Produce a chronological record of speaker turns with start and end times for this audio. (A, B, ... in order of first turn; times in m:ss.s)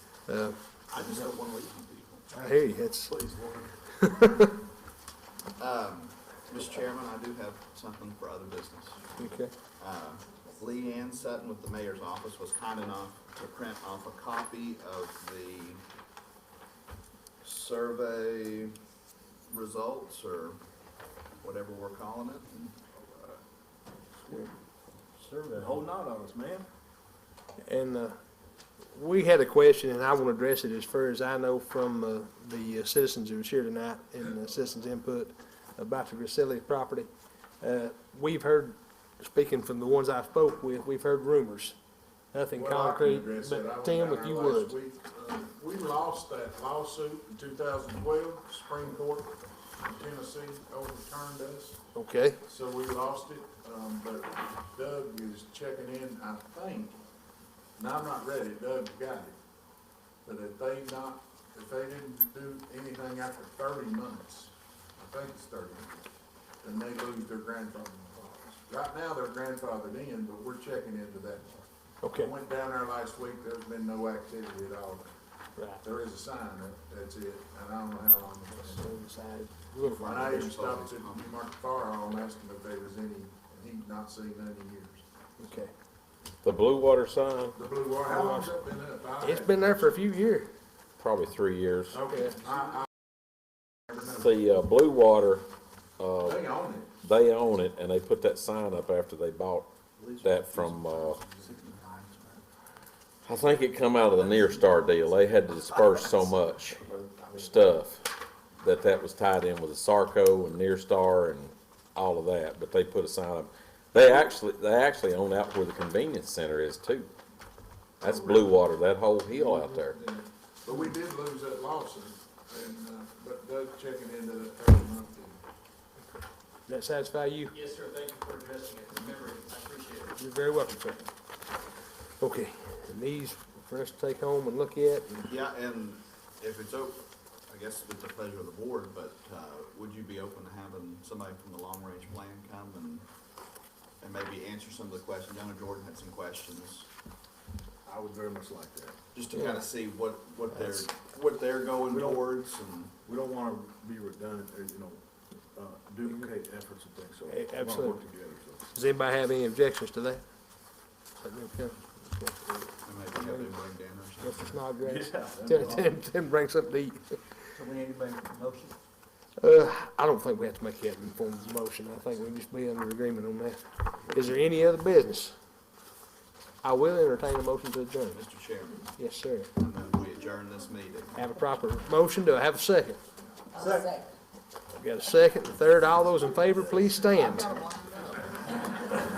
0:00.2-0:01.2 A
0:00.9-0:02.2 B
0:02.3-0:03.2 A
0:03.1-0:03.7 C
0:03.9-0:04.6 A
0:05.6-0:09.1 B
0:09.2-0:09.5 A
0:09.8-0:15.8 B
0:17.4-0:18.7 B
0:19.5-0:20.6 B
0:21.4-0:22.7 B
0:22.9-0:23.4 C
0:25.3-0:25.8 D
0:25.4-0:26.7 C
0:27.6-0:28.2 A
0:28.9-0:37.1 A
0:37.6-0:41.8 A
0:42.3-0:44.7 A
0:42.5-0:51.8 E
0:51.9-0:52.4 A
0:52.4-0:57.0 E
0:57.8-0:59.4 E
1:00.2-1:06.0 E
1:06.6-1:15.1 E
1:12.0-1:12.3 A
1:15.6-1:15.8 A
1:15.8-1:18.9 E
1:18.6-1:20.4 A
1:19.8-1:21.4 B
1:20.0-1:25.0 E
1:25.4-1:25.7 A
1:26.4-1:27.5 F
1:27.5-1:29.9 E
1:28.1-1:28.6 A
1:29.2-1:30.5 A
1:31.0-1:32.0 F
1:31.9-1:32.8 E
1:32.1-1:32.3 A
1:34.1-1:35.5 F
1:36.0-1:36.4 F
1:36.2-1:36.9 E
1:37.0-1:39.7 F
1:40.1-1:42.2 B
1:40.2-1:41.2 F
1:43.2-1:46.8 F
1:46.9-1:47.3 C
1:47.3-1:48.1 F
1:48.6-1:57.1 F
1:58.0-2:00.0 F
2:00.2-2:05.4 E
2:06.7-2:07.5 A
2:07.5-2:10.2 D
2:10.2-2:11.1 A
2:12.2-2:15.2 A
2:15.2-2:23.0 B
2:24.0-2:26.9 B
2:27.8-2:29.0 C
2:29.1-2:32.9 B
2:29.3-2:29.7 A
2:30.6-2:30.8 A
2:31.9-2:32.3 C
2:33.0-2:35.0 C
2:35.5-2:38.7 C
2:37.3-2:38.0 A
2:38.7-2:40.2 A
2:41.2-2:42.6 A
2:42.8-2:44.6 B
2:43.2-2:43.5 A
2:44.2-2:47.2 A
2:44.8-2:45.9 C
2:47.5-2:48.8 D
2:49.4-2:55.3 A
2:56.6-2:58.2 A
2:58.1-2:58.9 B
2:59.0-2:59.5 A
2:59.6-3:01.2 B
3:01.1-3:03.0 A
3:03.5-3:04.1 D
3:04.8-3:07.6 A
3:07.2-3:09.0 D